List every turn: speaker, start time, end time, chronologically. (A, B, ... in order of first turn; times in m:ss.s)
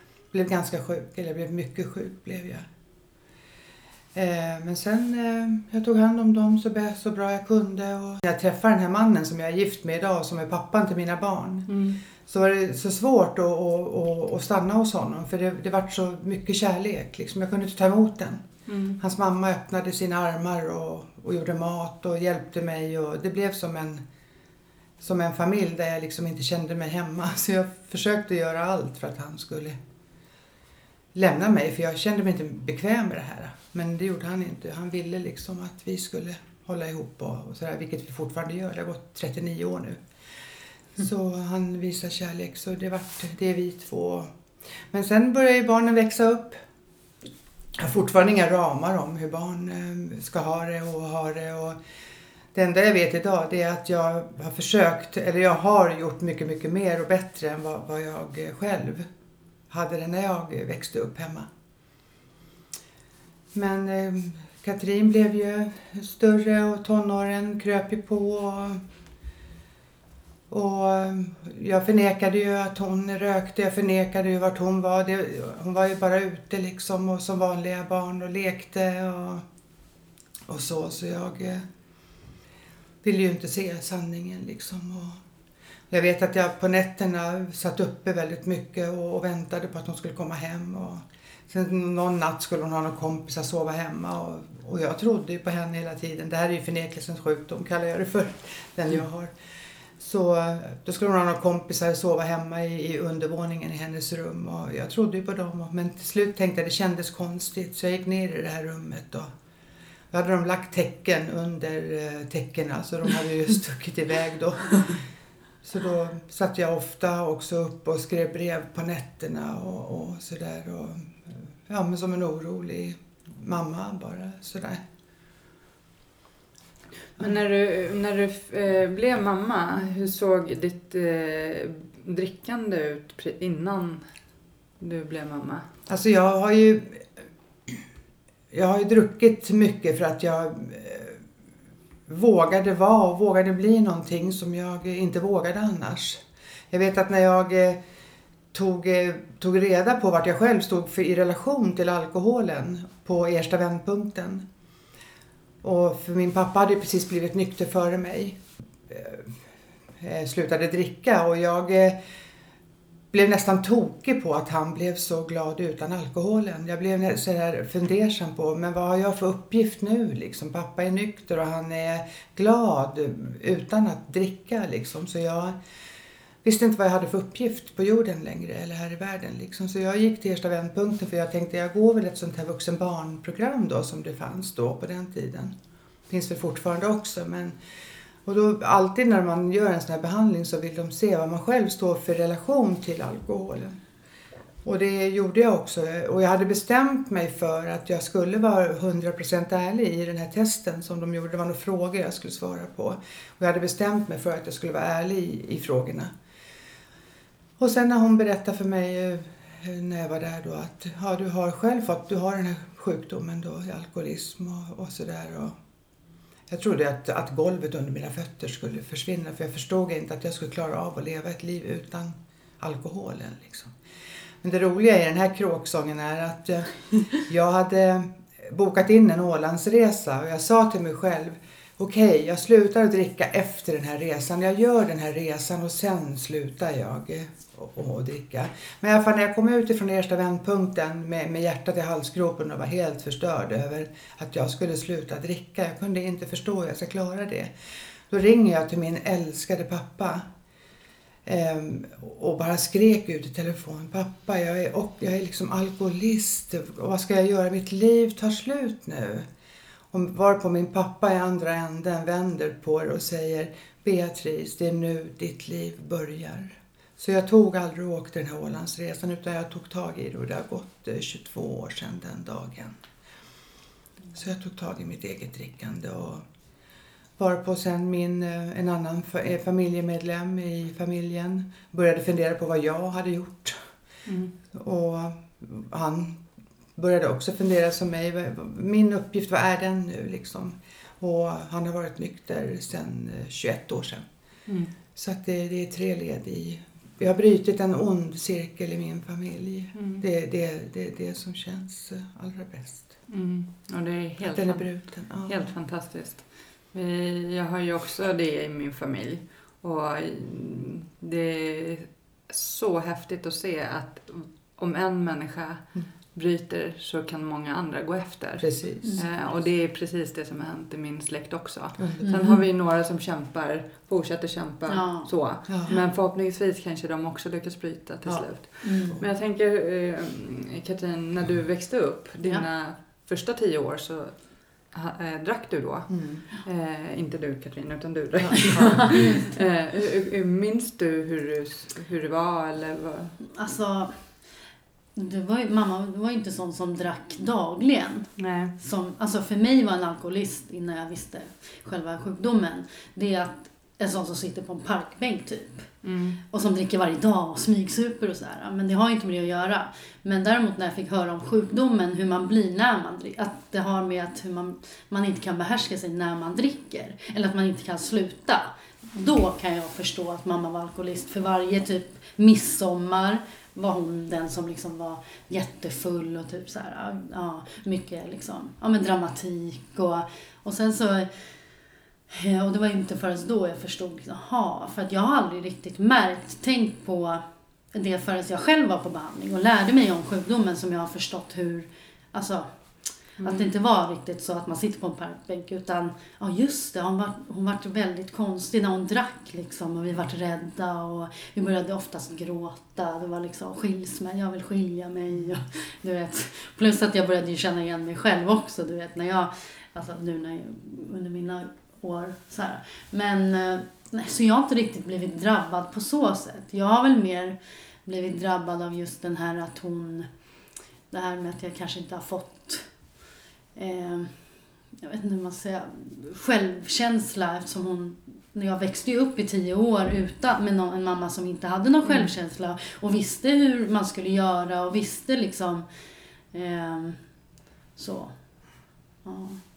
0:00.3-0:02.7 A
0:04.1-0:24.0 A
0:11.7-0:12.0 B
0:18.7-0:19.0 B
0:25.0-0:29.8 A
0:31.1-0:40.0 A
0:41.0-0:44.3 A
0:44.9-0:46.6 A
0:47.8-0:51.8 A
0:52.5-0:59.1 A
0:59.7-1:01.5 A
1:03.5-1:08.8 A
1:10.5-1:19.4 A
1:20.5-1:21.6 A
1:23.0-1:25.2 A
1:25.9-1:39.3 A
1:40.0-1:49.3 A
1:50.1-1:55.0 A
1:55.6-2:04.8 A
2:07.2-2:14.0 B
2:14.8-2:15.7 B
2:15.9-2:17.1 A
2:18.5-2:21.2 A
2:22.1-2:27.8 A
2:28.5-2:34.4 A
2:35.6-2:39.4 A
2:40.0-2:42.0 A
2:43.1-2:55.6 A
2:56.4-3:05.5 A
3:06.1-3:07.6 A
3:08.2-3:13.8 A
3:14.6-3:26.1 A
3:27.6-3:35.6 A
3:36.5-3:43.7 A
3:44.4-4:07.5 A
4:08.1-4:10.3 A
4:11.2-4:19.3 A
4:19.9-4:32.8 A
4:34.1-4:36.2 A
4:37.2-4:43.7 A
4:44.0-4:44.3 B
4:44.5-4:46.2 A
4:46.8-4:54.0 A
4:54.5-4:54.7 B
4:55.0-5:02.9 A
4:59.8-5:00.0 B
5:03.1-5:43.2 B
5:04.2-5:05.5 A
5:18.4-5:19.2 A
5:21.8-5:22.2 A
5:22.0-5:22.4 C
5:24.7-5:25.1 C
5:25.5-5:25.8 A
5:28.0-5:29.0 A
5:28.6-5:29.0 C
5:32.2-5:32.4 C
5:35.9-5:36.2 A
5:38.3-5:39.1 A
5:38.8-5:39.3 C
5:43.2-5:44.3 C
5:45.0-6:21.4 C
5:48.2-5:48.5 B
5:55.8-5:56.2 B
6:22.1-7:00.1 C
6:33.2-6:33.5 B
7:00.9-7:02.9 C
7:03.6-7:15.7 C
7:11.8-7:12.1 B
7:16.3-7:19.4 C